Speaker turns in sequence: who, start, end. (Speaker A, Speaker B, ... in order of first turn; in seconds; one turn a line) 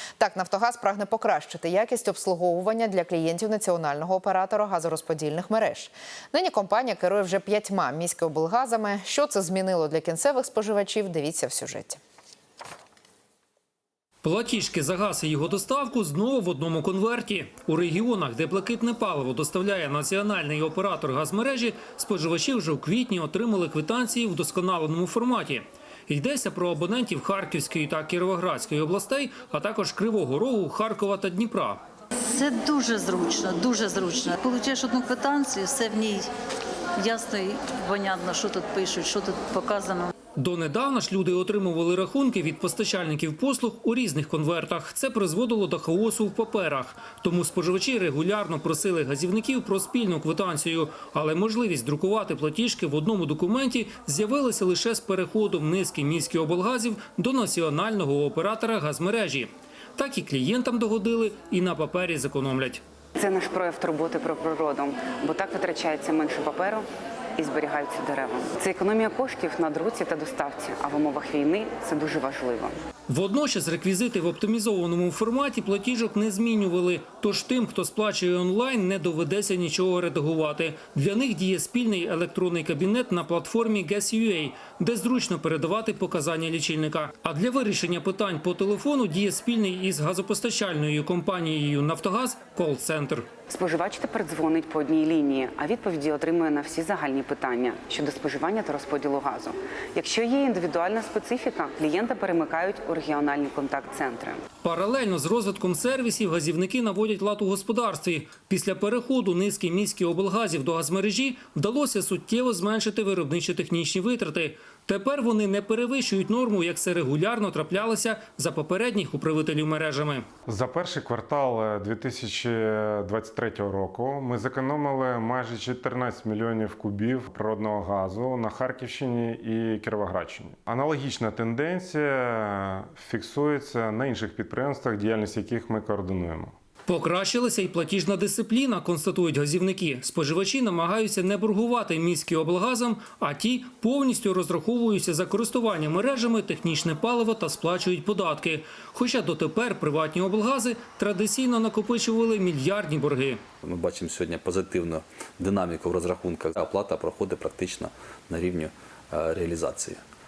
Speaker A: 0.2-12.0
Speaker B: 14.2-31.8
Speaker C: 32.2-36.3
Speaker C: 37.0-40.1
Speaker B: 40.4-62.8
Speaker D: 63.2-72.8
Speaker B: 73.1-93.3
Speaker D: 93.5-104.4
Speaker B: 104.6-120.3
Speaker E: 120.5-136.6
Speaker B: 136.9-153.4
Speaker F: 153.6-160.0